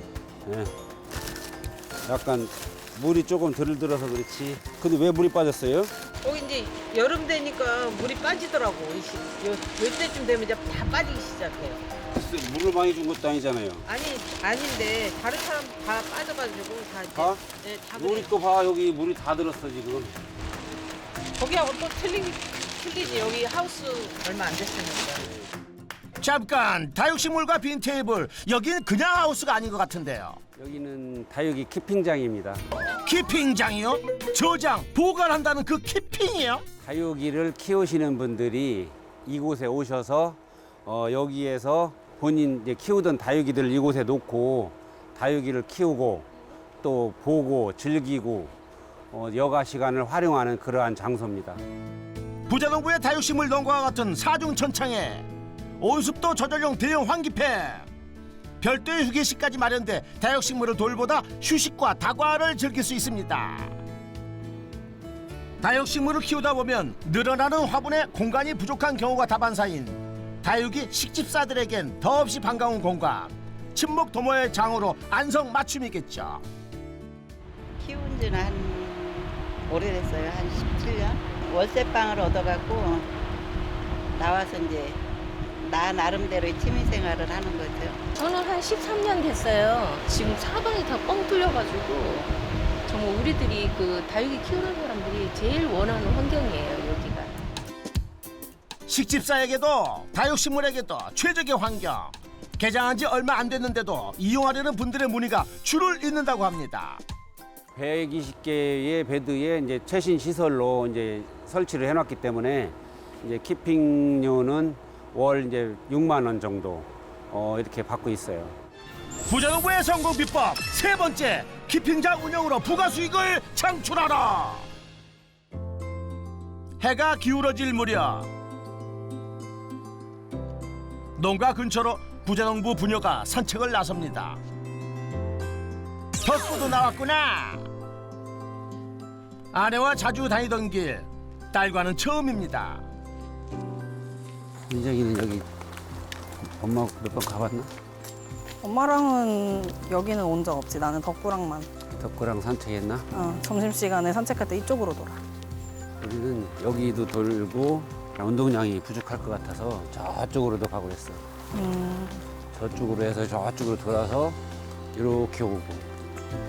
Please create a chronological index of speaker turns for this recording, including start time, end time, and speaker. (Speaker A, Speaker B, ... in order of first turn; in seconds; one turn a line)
Speaker A: 0.4-0.7
Speaker A: 2.0-5.9
Speaker B: 6.2-11.8
Speaker A: 12.1-13.8
Speaker B: 13.8-18.3
Speaker A: 17.1-17.4
Speaker A: 17.9-20.1
Speaker B: 21.4-25.3
Speaker C: 26.2-30.4
Speaker A: 30.6-32.6
Speaker C: 33.0-36.6
Speaker A: 36.8-46.3
Speaker A: 46.8-48.5
Speaker A: 49.1-51.6
Speaker C: 52.5-55.3
Speaker C: 55.8-57.9
Speaker C: 58.6-63.8
Speaker C: 65.6-76.4
Speaker D: 77.8-83.1
Speaker D: 84.1-85.0
Speaker D: 85.6-88.0
Speaker E: 88.1-92.3
Speaker E: 92.9-97.3
Speaker C: 98.9-107.0
Speaker A: 107.7-118.5
Speaker C: 119.3-124.7
Speaker C: 126.8-128.3
Speaker C: 131.2-134.4
Speaker C: 136.2-137.7
Speaker C: 139.5-142.8
Speaker A: 144.7-145.5
Speaker A: 146.4-147.7
Speaker F: 148.6-151.7
Speaker A: 151.9-153.1
Speaker F: 153.1-155.2
Speaker A: 156.0-161.2
Speaker F: 161.5-162.2
Speaker A: 162.5-164.4
Speaker A: 164.9-165.9